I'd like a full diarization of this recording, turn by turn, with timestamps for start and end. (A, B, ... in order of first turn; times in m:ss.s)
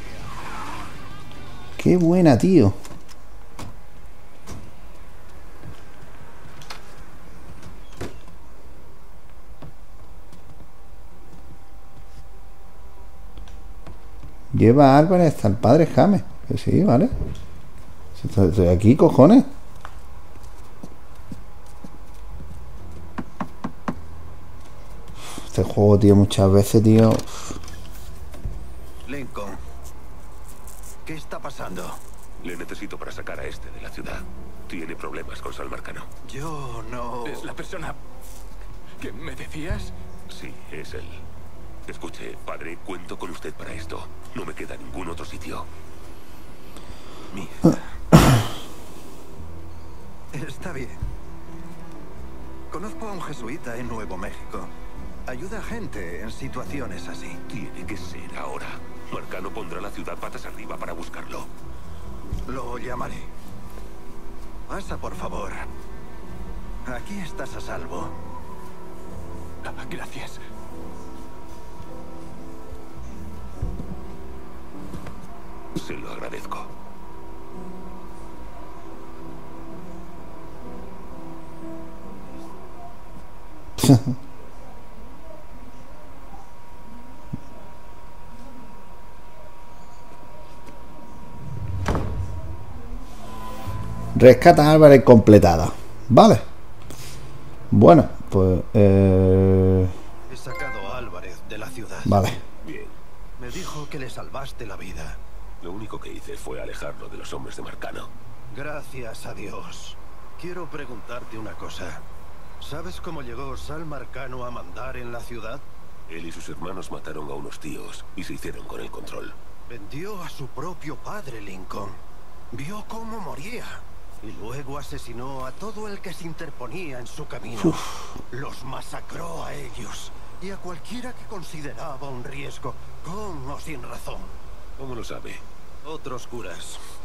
0:01.8-0:02.8 A
0:14.5-0:17.1 A
0:18.2-0:19.5 A
0:25.4-0:27.6 A
0:29.1-0:29.6 B
0:31.1-0:32.0 B
0:32.4-0:36.1 C
0:36.2-0:37.6 B
0:37.3-0:38.0 D
0:39.0-0:39.9 D
0:40.3-0:41.2 C
0:41.9-0:45.7 C
0:47.3-0:48.0 B
0:50.3-0:51.0 B
0:52.7-0:54.7 B
0:55.3-0:57.4 B
0:57.5-1:01.5 C
1:02.5-1:03.3 B
1:04.7-1:05.7 B
1:06.8-1:08.2 B
1:09.6-1:10.4 D
1:15.8-1:16.7 C
1:23.8-1:24.1 A
1:34.2-1:36.4 A
1:37.7-1:39.9 A
1:40.3-1:42.2 B
1:42.1-1:42.4 A
1:42.6-1:43.0 C
1:43.4-1:45.2 B
1:45.6-1:48.1 C
1:48.5-1:52.0 B
1:52.6-1:55.6 B
1:56.1-1:59.4 C
1:59.7-2:02.0 B
2:02.5-2:14.3 B
2:14.8-2:15.4 C
2:15.8-2:16.8 B